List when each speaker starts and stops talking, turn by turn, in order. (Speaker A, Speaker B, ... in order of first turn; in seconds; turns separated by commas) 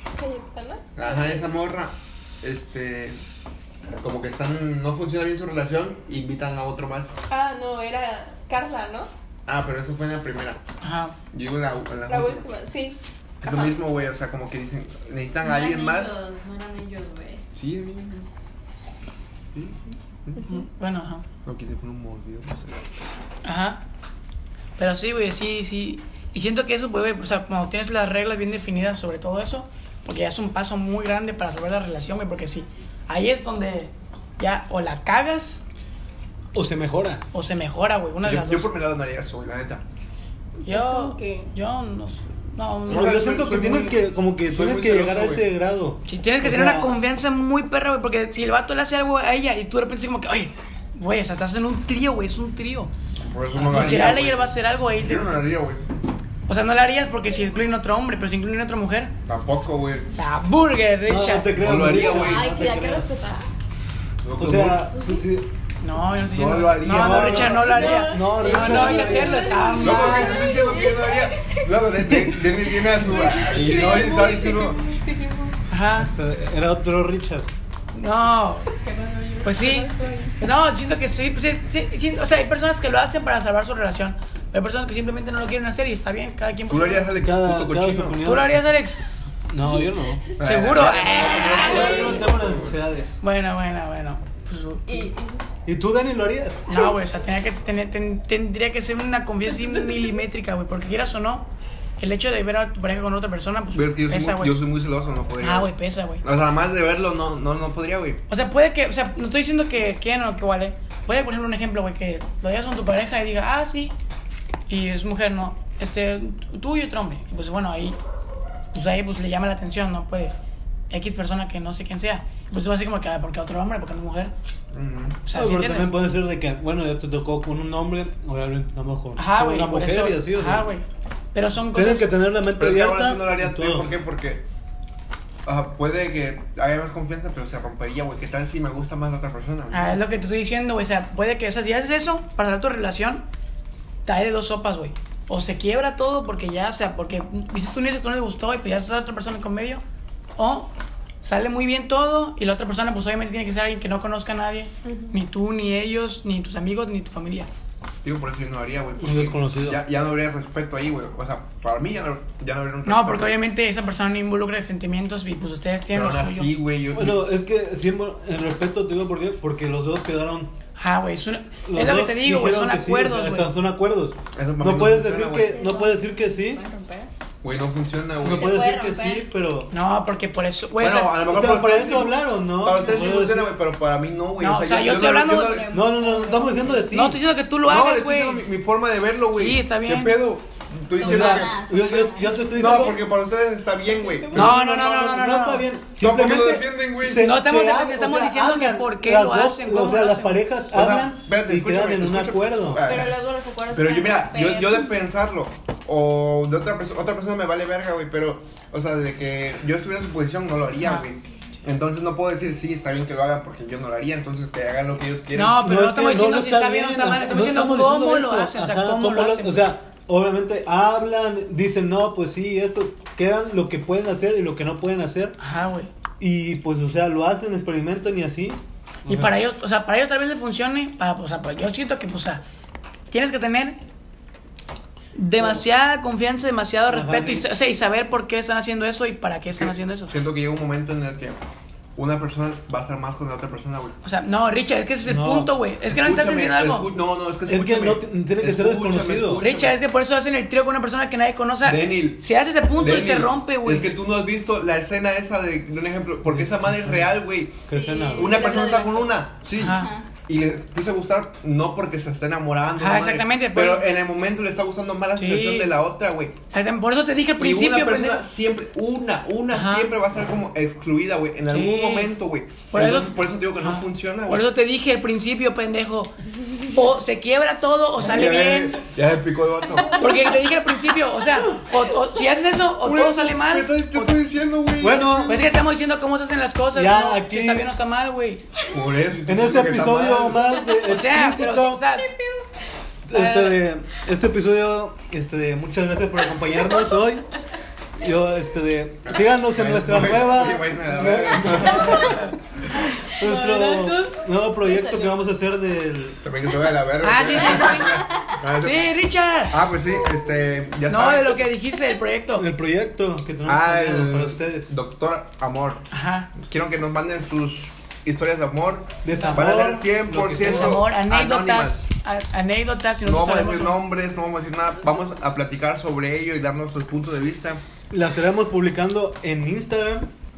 Speaker A: 0.1-1.5, Speaker B: 1.0-3.2, Speaker B: 4.0-7.1, Speaker A: 7.3-9.1, Speaker B: 9.5-10.6, Speaker C: 10.8-11.2, Speaker B: 11.3-12.5, Speaker A: 12.1-13.8, Speaker B: 13.4-16.2, Speaker D: 15.4-17.4, Speaker B: 17.6-18.3, Speaker B: 19.6-20.4, Speaker C: 20.4-21.2, Speaker B: 21.4-23.0, Speaker C: 23.4-23.8, Speaker C: 24.8-35.6, Speaker E: 36.5-37.3, Speaker C: 37.3-38.7, Speaker B: 38.2-39.8, Speaker C: 40.6-43.2, Speaker A: 40.7-41.5, Speaker B: 42.9-45.5, Speaker E: 42.9-46.9, Speaker C: 46.1-52.9, Speaker B: 53.2-55.9, Speaker C: 53.5-55.4, Speaker E: 53.6-54.2, Speaker C: 56.5-59.1, Speaker B: 59.3-60.1, Speaker C: 60.1-62.1, Speaker E: 61.1-63.1, Speaker B: 61.6-62.5, Speaker D: 62.0-63.5, Speaker B: 64.2-64.9, Speaker E: 64.4-65.5, Speaker C: 65.8-70.5, Speaker B: 66.3-67.9, Speaker E: 66.8-69.5, Speaker A: 67.6-75.6, Speaker B: 69.8-74.8, Speaker D: 70.4-71.1, Speaker C: 75.7-76.1, Speaker E: 75.9-77.5, Speaker C: 77.9-78.7, Speaker A: 78.7-80.4, Speaker C: 79.4-87.2, Speaker B: 86.7-88.2, Speaker E: 87.2-88.7, Speaker C: 88.2-89.0, Speaker E: 89.5-93.2, Speaker B: 90.4-92.8, Speaker C: 90.4-92.3, Speaker C: 93.2-95.1, Speaker D: 94.9-95.4, Speaker E: 95.7-96.8, Speaker C: 96.7-101.5, Speaker A: 99.6-100.0, Speaker C: 102.0-104.6, Speaker B: 103.7-105.7, Speaker C: 105.4-106.2, Speaker B: 106.2-108.2, Speaker C: 108.3-113.9, Speaker C: 114.7-118.0, Speaker C: 118.7-120.3, Speaker C: 120.9-124.3, Speaker B: 124.7-125.2, Speaker C: 125.3-126.0, Speaker E: 125.3-130.7, Speaker C: 129.2-132.2, Speaker E: 131.7-134.0, Speaker B: 132.5-134.4, Speaker B: 135.4-140.0, Speaker C: 139.7-143.2, Speaker C: 144.1-149.8, Speaker C: 150.4-157.5, Speaker A: 154.9-155.1, Speaker B: 158.0-163.3, Speaker E: 159.0-159.8, Speaker C: 162.8-166.5, Speaker B: 165.9-167.3, Speaker E: 166.9-170.5, Speaker C: 170.8-173.6, Speaker E: 171.7-176.6, Speaker B: 174.3-175.6, Speaker D: 175.4-177.1, Speaker B: 177.4-178.7, Speaker E: 178.2-179.7, Speaker D: 178.3-179.3, Speaker C: 179.7-181.2, Speaker B: 180.8-185.8, Speaker E: 181.2-183.6, Speaker D: 182.7-183.1, Speaker C: 184.4-185.6, Speaker D: 185.3-187.1, Speaker E: 185.7-187.2, Speaker C: 186.9-188.4, Speaker B: 187.6-194.6, Speaker C: 189.3-190.3, Speaker E: 191.0-193.1, Speaker D: 191.0-192.9, Speaker A: 193.9-194.5, Speaker E: 194.3-203.0, Speaker C: 194.3-195.7, Speaker B: 196.0-197.3, Speaker C: 197.2-200.4, Speaker B: 200.7-215.6, Speaker D: 202.8-205.0, Speaker C: 210.8-211.1, Speaker C: 215.3-219.7, Speaker E: 215.6-225.4, Speaker C: 225.4-225.9, Speaker E: 226.2-229.3, Speaker C: 229.1-232.4, Speaker C: 233.1-233.8, Speaker C: 235.2-240.1, Speaker E: 236.9-237.5, Speaker B: 239.6-241.4, Speaker B: 242.0-244.0, Speaker C: 244.0-246.9, Speaker E: 245.0-245.5, Speaker B: 245.9-249.8, Speaker E: 247.5-249.4, Speaker C: 249.4-253.9, Speaker B: 251.6-257.6, Speaker E: 256.3-258.5, Speaker D: 257.7-260.1, Speaker B: 258.1-266.4, Speaker C: 259.6-259.9, Speaker C: 262.8-263.9, Speaker C: 265.2-265.7, Speaker C: 266.5-268.2, Speaker B: 267.4-274.5, Speaker C: 269.5-269.9, Speaker C: 271.5-272.1, Speaker C: 272.7-278.8, Speaker B: 278.0-280.4, Speaker C: 279.9-284.1, Speaker B: 282.8-285.4, Speaker E: 284.8-285.5, Speaker C: 285.2-288.5, Speaker E: 286.7-287.7, Speaker B: 288.6-290.6, Speaker E: 289.2-291.9, Speaker C: 290.8-292.1, Speaker A: 292.1-292.4, Speaker E: 293.1-297.3, Speaker C: 293.1-293.6, Speaker E: 298.0-306.2, Speaker B: 299.1-302.3, Speaker A: 303.2-304.2, Speaker D: 304.6-305.2, Speaker B: 306.2-308.9, Speaker C: 307.0-309.6, Speaker B: 309.5-311.5, Speaker C: 310.9-312.5, Speaker E: 312.4-314.8, Speaker B: 313.4-321.8, Speaker C: 315.9-316.3, Speaker E: 319.0-320.9, Speaker C: 319.1-319.5, Speaker C: 320.4-323.8, Speaker B: 323.0-327.6, Speaker E: 327.9-330.1